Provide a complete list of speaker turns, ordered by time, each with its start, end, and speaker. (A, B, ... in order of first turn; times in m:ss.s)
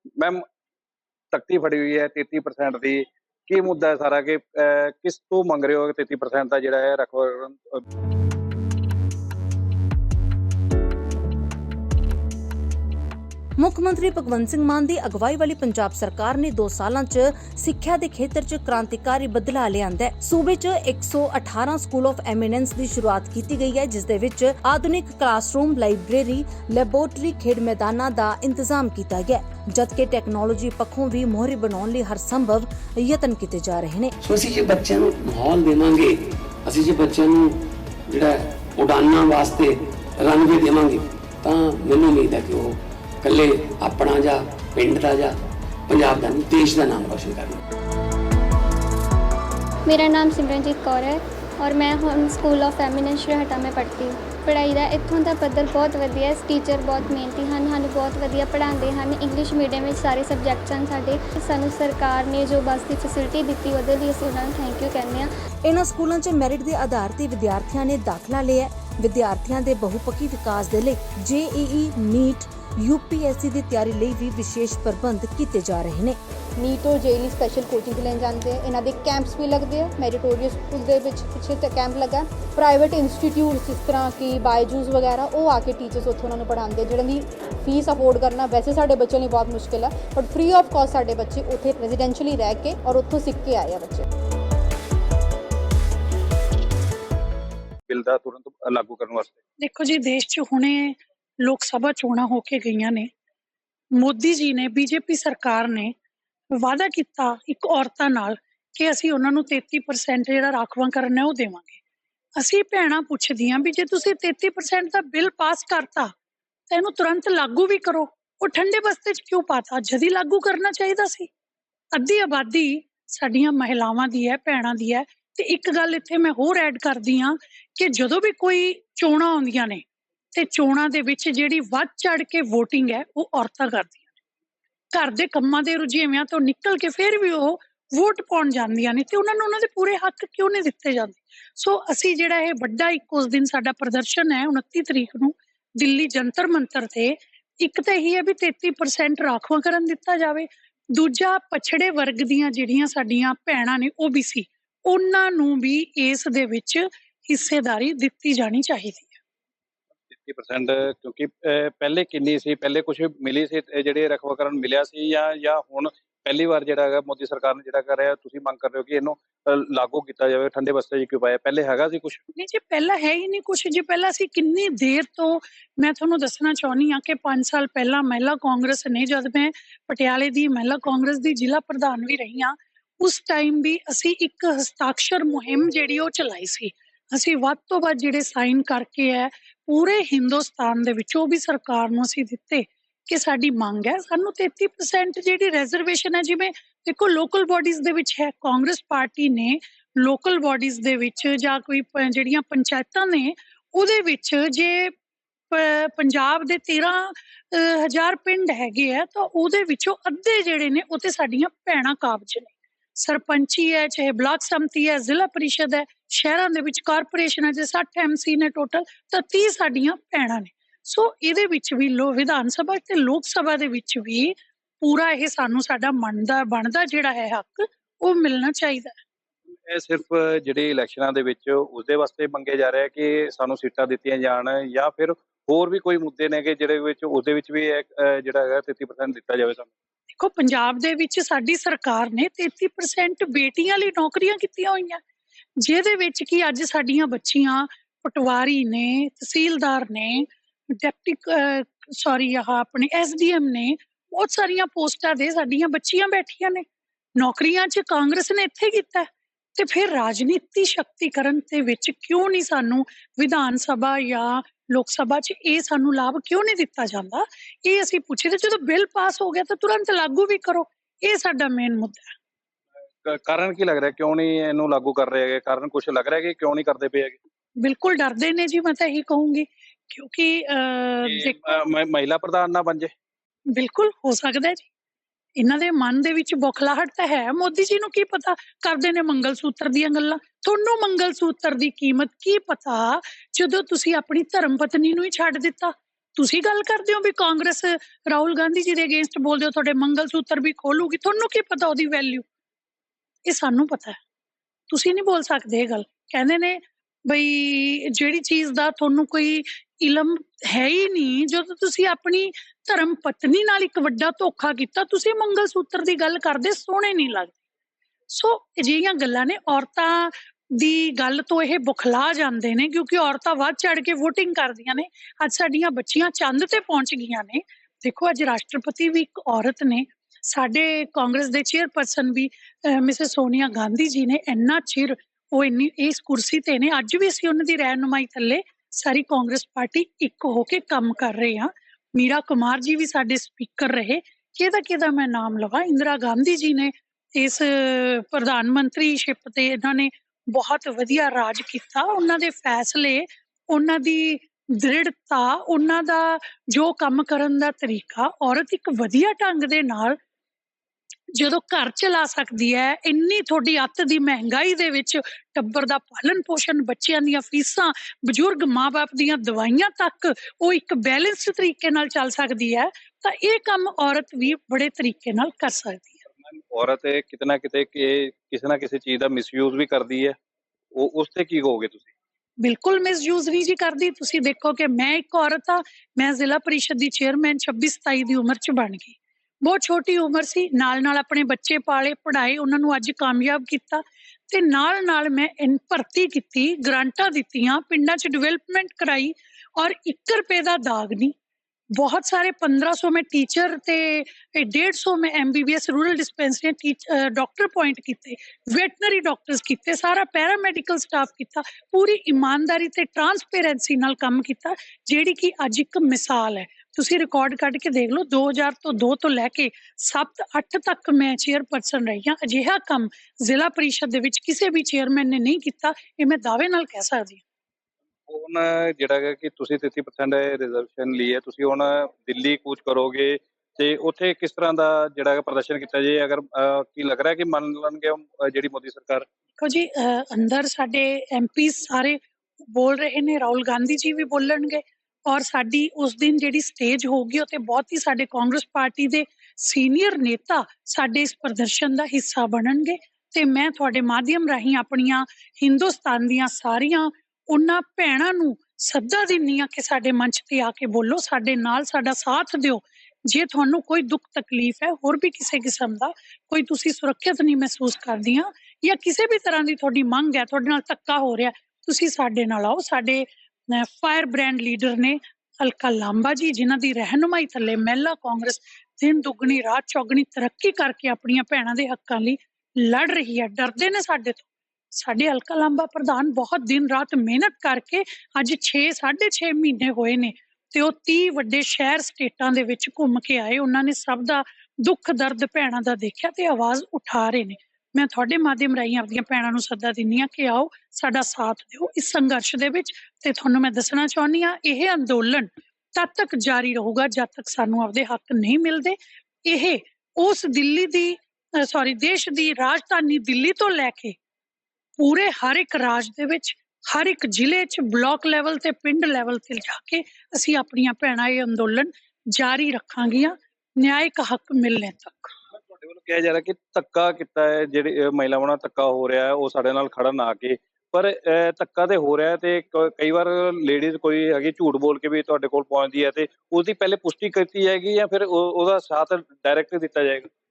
0:00.2-0:00.4 A
0:01.3-0:07.8 A
0:13.6-0:34.1 B
0:34.2-0:47.6 C
0:49.8-1:05.3 D
1:05.6-1:16.2 B
1:16.6-1:34.0 E
1:37.9-1:39.3 A
1:39.6-1:43.1 F
1:43.9-1:45.9 F
1:46.5-1:51.8 F
1:52.4-1:56.1 F
1:56.7-2:01.3 F
2:01.9-2:09.8 F
2:10.3-2:14.1 F
2:14.9-2:39.2 F
2:40.2-2:52.2 A
2:52.3-3:24.9 F
3:25.5-3:49.0 F
3:49.6-3:59.7 A
4:00.2-4:05.0 F
4:05.6-4:16.6 F
4:17.2-4:32.1 F
4:33.0-4:37.2 A
4:37.6-4:41.6 F
4:41.0-4:42.9 A
4:43.5-4:44.7 F
4:45.4-5:02.2 F
5:03.2-5:04.0 F
5:04.7-5:17.3 F
5:18.1-6:00.0 F
6:01.1-6:16.0 F
6:16.3-6:20.1 A
6:20.7-6:21.9 A
6:22.4-6:41.1 F
6:41.7-7:07.2 F
7:08.1-7:19.0 A
7:19.4-8:34.0 F
8:34.8-8:45.1 F
8:45.6-9:00.1 A